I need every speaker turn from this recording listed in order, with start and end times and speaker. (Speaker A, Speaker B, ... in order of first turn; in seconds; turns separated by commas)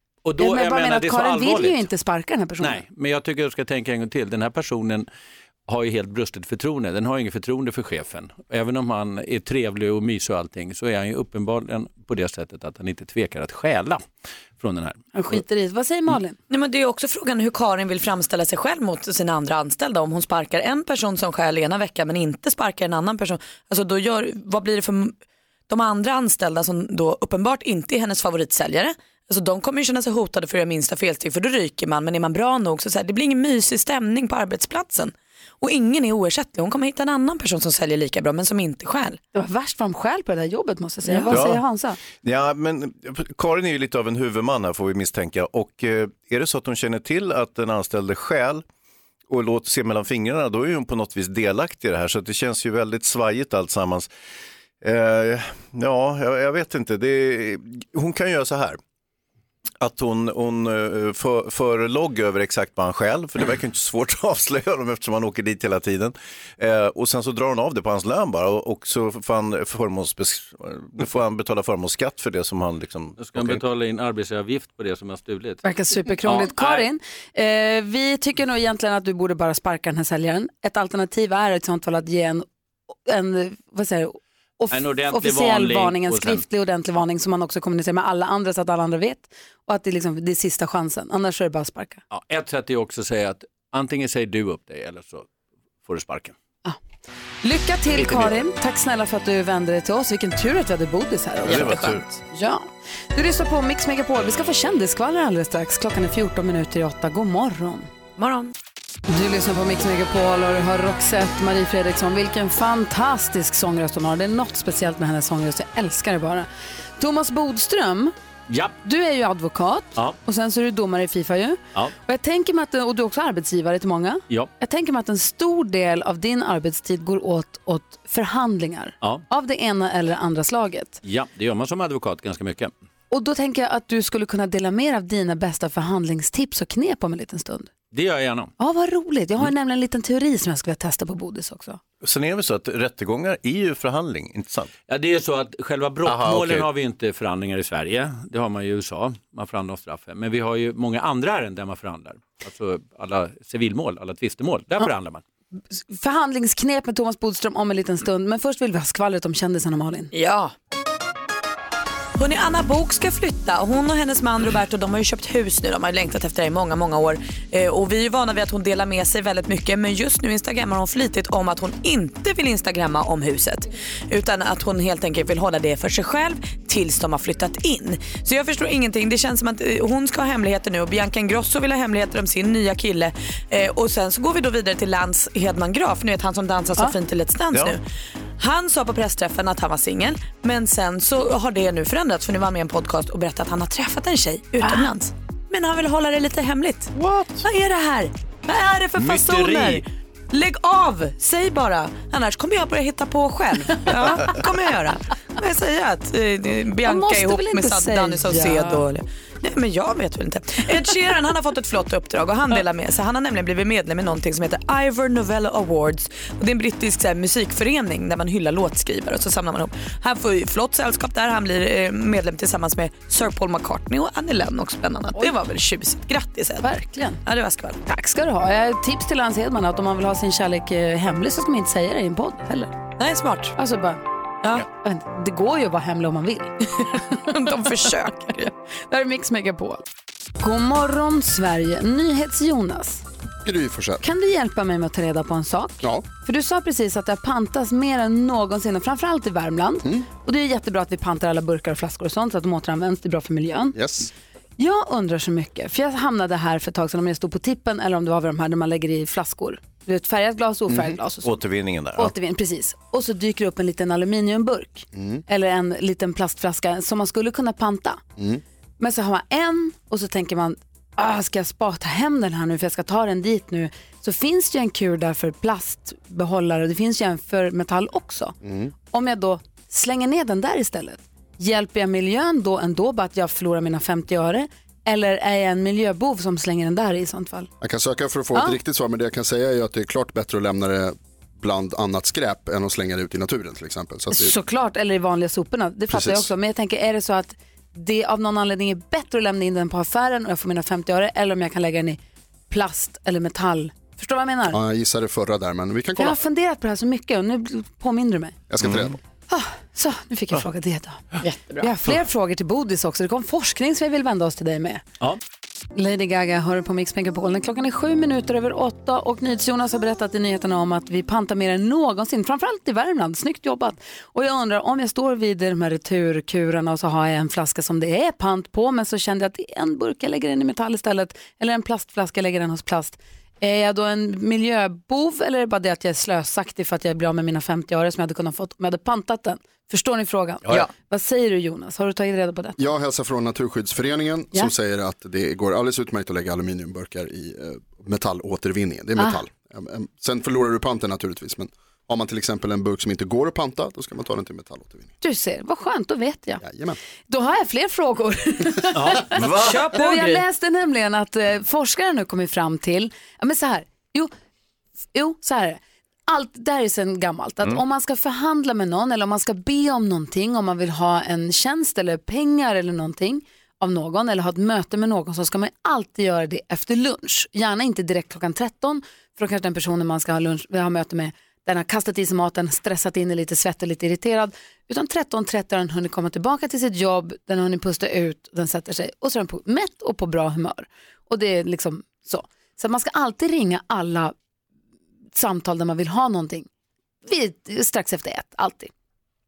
Speaker A: 0.2-1.9, Speaker B: 0.4-2.8, Speaker A: 2.6-5.1, Speaker A: 5.7-14.0, Speaker A: 14.6-15.4, Speaker B: 15.1-16.4, Speaker C: 16.5-25.2, Speaker C: 25.7-39.2, Speaker B: 39.3-42.0, Speaker C: 41.0-41.4, Speaker D: 41.3-48.6, Speaker D: 49.3-54.1, Speaker D: 54.8-58.8, Speaker D: 59.8-73.6, Speaker A: 73.2-75.6, Speaker B: 75.6-82.5, Speaker A: 76.2-76.9, Speaker B: 83.0-92.0, Speaker A: 84.7-86.4, Speaker A: 92.1-95.3, Speaker A: 95.8-96.3, Speaker B: 97.4-107.9, Speaker A: 98.0-98.3, Speaker C: 101.4-102.0, Speaker D: 101.4-102.1, Speaker C: 108.2-108.5, Speaker B: 109.1-118.1, Speaker A: 118.5-118.8, Speaker B: 118.8-131.0, Speaker A: 129.0-129.2, Speaker A: 131.0-132.7, Speaker B: 133.1-137.7, Speaker A: 137.9-138.5, Speaker B: 138.6-141.8, Speaker D: 142.0-144.7, Speaker A: 144.9-155.2, Speaker D: 146.0-146.7, Speaker B: 155.8-160.1, Speaker C: 160.1-160.5, Speaker C: 162.2-187.8, Speaker D: 187.5-187.8, Speaker C: 188.4-226.7, Speaker D: 196.9-197.4, Speaker A: 199.1-199.8, Speaker B: 206.8-208.8, Speaker B: 226.6-227.2, Speaker C: 227.2-227.8, Speaker B: 227.8-232.7, Speaker C: 233.0-233.6, Speaker B: 233.6-234.0, Speaker B: 234.6-236.5, Speaker C: 236.7-238.5, Speaker B: 238.9-239.8, Speaker B: 240.4-243.0, Speaker E: 243.4-244.0, Speaker B: 244.0-253.8, Speaker E: 253.7-254.1, Speaker B: 254.6-261.3, Speaker D: 261.2-262.1, Speaker B: 261.9-268.0, Speaker E: 264.9-265.2, Speaker B: 268.8-278.4, Speaker E: 278.4-278.7, Speaker B: 278.9-287.5, Speaker E: 287.6-294.3, Speaker B: 294.1-302.0, Speaker E: 295.9-296.3, Speaker B: 302.5-304.6, Speaker E: 304.5-306.2, Speaker B: 305.9-308.5, Speaker E: 308.5-309.0, Speaker D: 308.6-308.9, Speaker B: 309.3-311.0, Speaker C: 311.2-311.7, Speaker B: 311.6-314.8, Speaker B: 315.7-342.6, Speaker E: 342.6-354.9, Speaker B: 355.0-356.4, Speaker E: 356.4-356.8, Speaker B: 357.1-364.1, Speaker D: 359.1-359.7, Speaker C: 359.1-360.2, Speaker B: 364.9-394.1, Speaker B: 395.1-396.5, Speaker B: 397.0-398.7